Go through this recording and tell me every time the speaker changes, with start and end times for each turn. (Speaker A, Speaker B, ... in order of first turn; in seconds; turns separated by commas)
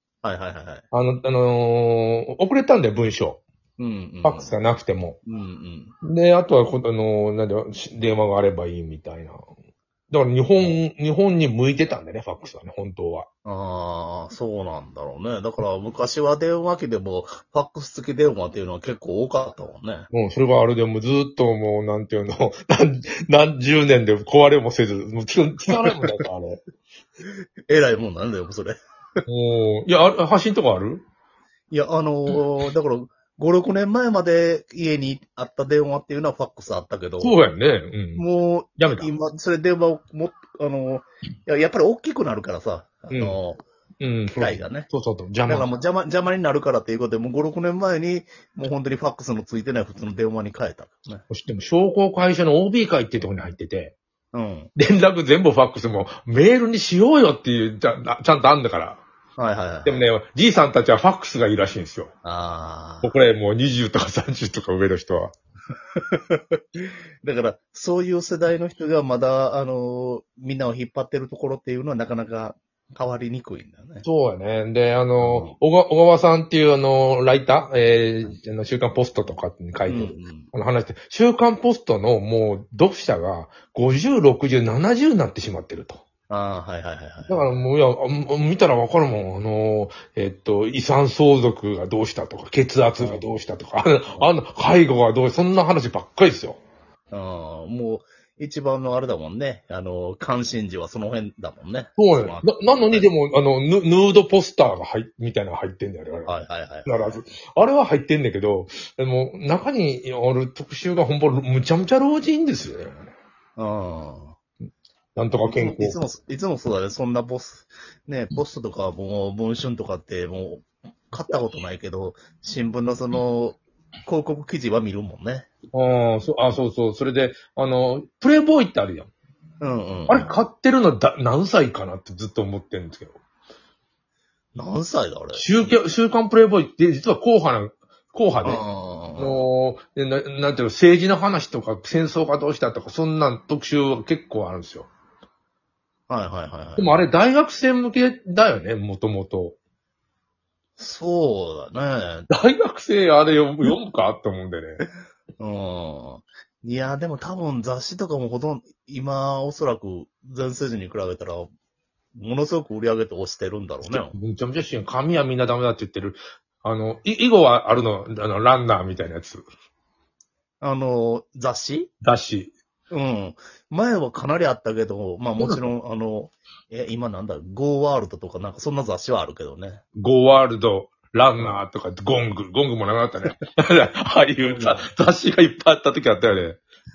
Speaker A: 0.2-0.8, Speaker B: 0.9-3.4, Speaker A: 3.8-4.5, Speaker B: 4.2-5.2, Speaker A: 5.2-5.9, Speaker B: 6.0-9.4, Speaker B: 10.1-13.3, Speaker A: 13.4-20.1, Speaker B: 20.1-26.6, Speaker A: 27.7-28.8, Speaker B: 29.3-31.0, Speaker A: 31.7-37.3, Speaker B: 37.2-38.2, Speaker A: 38.1-43.6, Speaker B: 38.8-39.1, Speaker B: 43.1-43.4, Speaker B: 44.0-45.7, Speaker A: 44.3-44.9, Speaker A: 45.5-51.2, Speaker B: 51.3-53.9, Speaker A: 54.3-54.7, Speaker B: 54.8-59.0, Speaker A: 59.4-60.1, Speaker B: 59.8-62.1, Speaker A: 62.2-63.1, Speaker B: 63.0-65.3, Speaker A: 66.0-74.0, Speaker B: 74.0-86.0, Speaker A: 75.2-75.5, Speaker A: 79.8-80.5, Speaker A: 86.3-87.5, Speaker B: 87.3-96.6, Speaker A: 93.0-93.2, Speaker A: 97.1-103.1, Speaker B: 102.0-106.3, Speaker A: 106.2-107.2, Speaker B: 106.8-113.1, Speaker A: 113.6-114.3, Speaker B: 115.1-116.0, Speaker A: 115.5-125.5, Speaker B: 125.7-129.1, Speaker A: 129.6-130.3, Speaker B: 130.1-133.2, Speaker A: 134.5-135.7, Speaker B: 135.3-138.6, Speaker A: 138.4-139.4, Speaker B: 139.2-144.9, Speaker A: 146.1-147.0, Speaker B: 146.8-149.6, Speaker A: 150.8-152.3, Speaker B: 152.3-154.8, Speaker A: 155.4-161.5, Speaker A: 162.1-164.1, Speaker B: 163.8-169.4, Speaker A: 170.6-171.9, Speaker B: 172.0-172.5, Speaker A: 172.9-179.8, Speaker B: 175.4-175.6, Speaker B: 180.0-186.6, Speaker A: 184.4-184.8